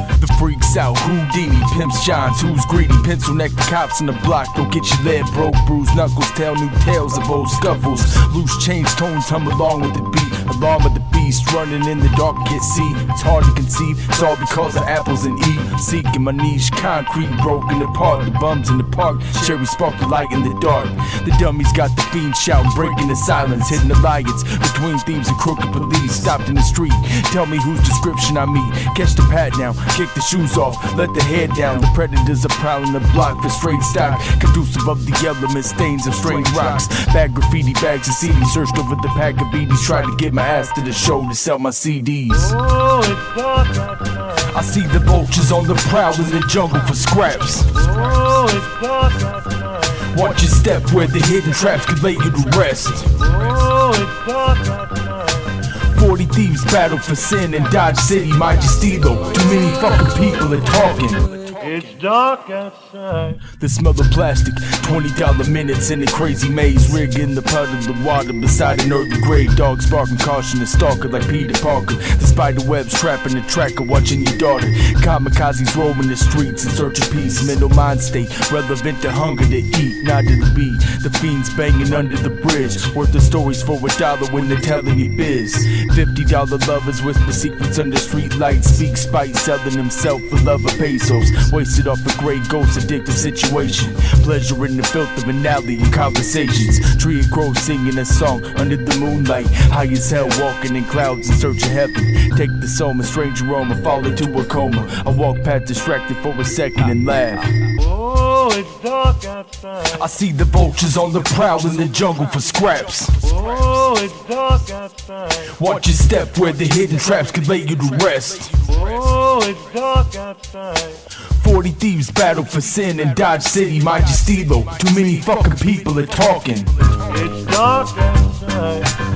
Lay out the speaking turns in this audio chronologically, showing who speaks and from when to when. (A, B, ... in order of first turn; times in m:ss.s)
0:00.2-0:42.6 A
0:42.7-0:44.2 B
0:44.3-0:48.1 A
0:48.1-0:49.6 B
0:49.9-0:53.3 A
0:53.5-0:55.5 B
0:55.8-1:01.3 A
1:01.6-1:03.3 B
1:03.4-1:47.6 A
1:47.9-1:49.7 B
1:49.8-1:53.5 A
1:53.5-1:55.1 B
1:55.3-1:58.9 A
1:58.9-2:01.0 B
2:01.2-2:06.8 A
2:07.1-2:08.9 B